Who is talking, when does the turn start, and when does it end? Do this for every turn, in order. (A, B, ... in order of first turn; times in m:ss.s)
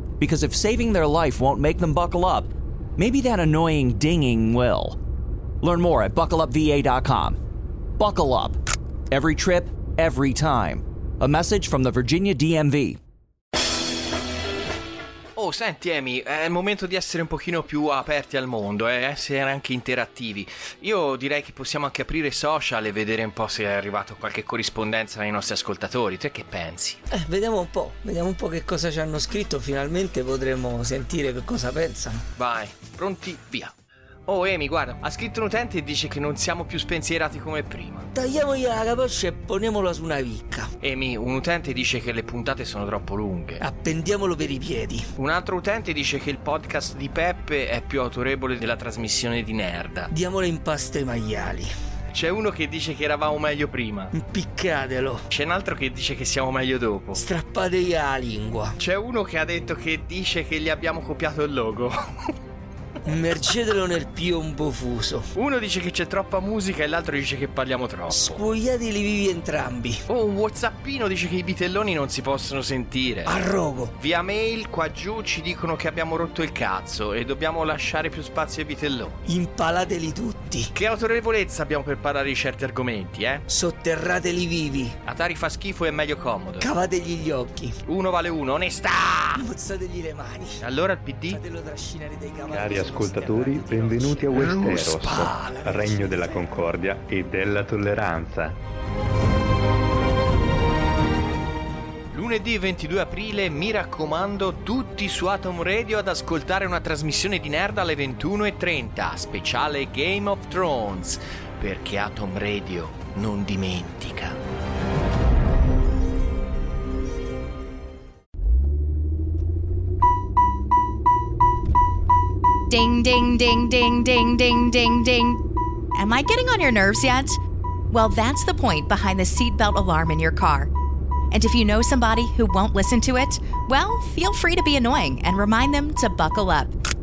0:00.2-0:05.0 A
0:05.6-0:07.4 A
0:08.0-0:08.6 A
0:09.1-0:13.0 A
0:15.4-0:27.0 B
0:27.1-0:32.2 C
0:32.4-0:33.7 B
0:34.3-0:38.1 B
0:38.2-0:40.7 C
0:40.8-0:43.6 B
0:43.6-0:45.1 C
0:45.2-0:50.1 B
0:50.1-0:51.7 C
0:52.1-0:54.1 B
0:54.1-0:55.2 C
0:55.3-0:57.2 B
0:57.1-0:58.8 C
0:58.8-1:02.3 B
1:03.0-1:05.3 C
1:05.4-1:08.4 B
1:08.1-1:10.0 C
1:10.1-1:13.4 B
1:13.2-1:13.9 C
1:14.0-1:19.2 B
1:19.3-1:20.7 C
1:20.7-1:23.4 B
1:23.5-1:25.0 C
1:25.0-1:26.7 B
1:26.6-1:27.8 C
1:27.8-1:29.5 B
1:29.4-1:30.6 C
1:30.6-1:31.4 B
1:31.3-1:36.5 C
1:32.5-1:38.6 D
1:34.4-1:35.5 B
1:42.1-1:54.4 B
2:02.7-2:05.4 E
2:06.0-2:07.4 E
2:07.9-2:10.7 E
2:11.3-2:16.7 E